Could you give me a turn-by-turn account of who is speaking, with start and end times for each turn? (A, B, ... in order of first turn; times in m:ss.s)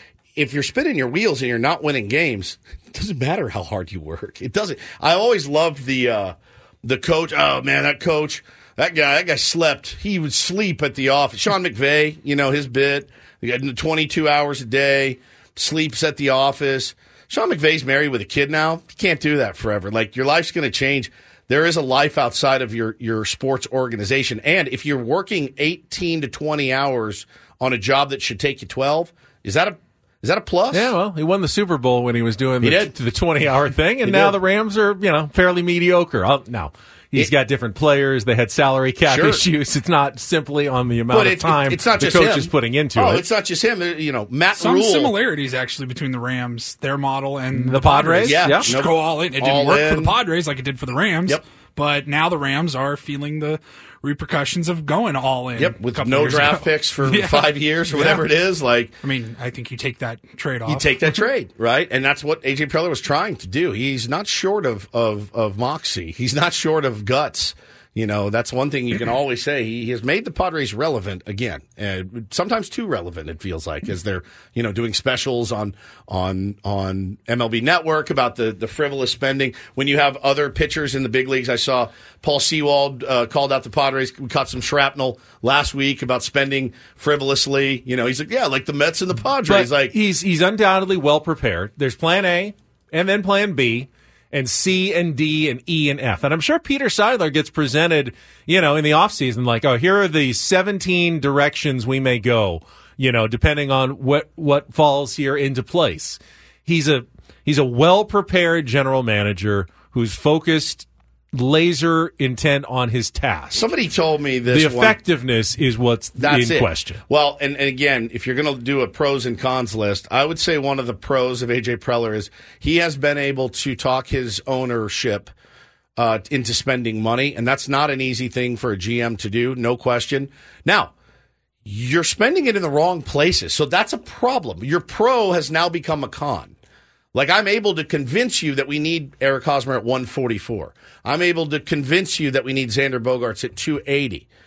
0:00.4-0:30.9 A
0:30.7-0:43.2 B
0:32.6-0:32.9 A
0:34.0-0:34.4 A
0:39.1-0:39.4 A
0:41.1-0:45.2 A
0:44.6-0:58.3 C
0:47.5-0:48.7 B
0:48.2-0:50.2 A
0:55.6-0:59.0 A
0:59.0-1:01.2 C
1:00.7-1:30.0 A
1:29.5-1:53.7 B
1:53.5-1:55.0 A
1:54.5-1:57.0 B
1:56.2-2:05.3 A
2:06.0-2:10.9 A
2:11.6-2:16.6 A
2:17.1-2:24.3 A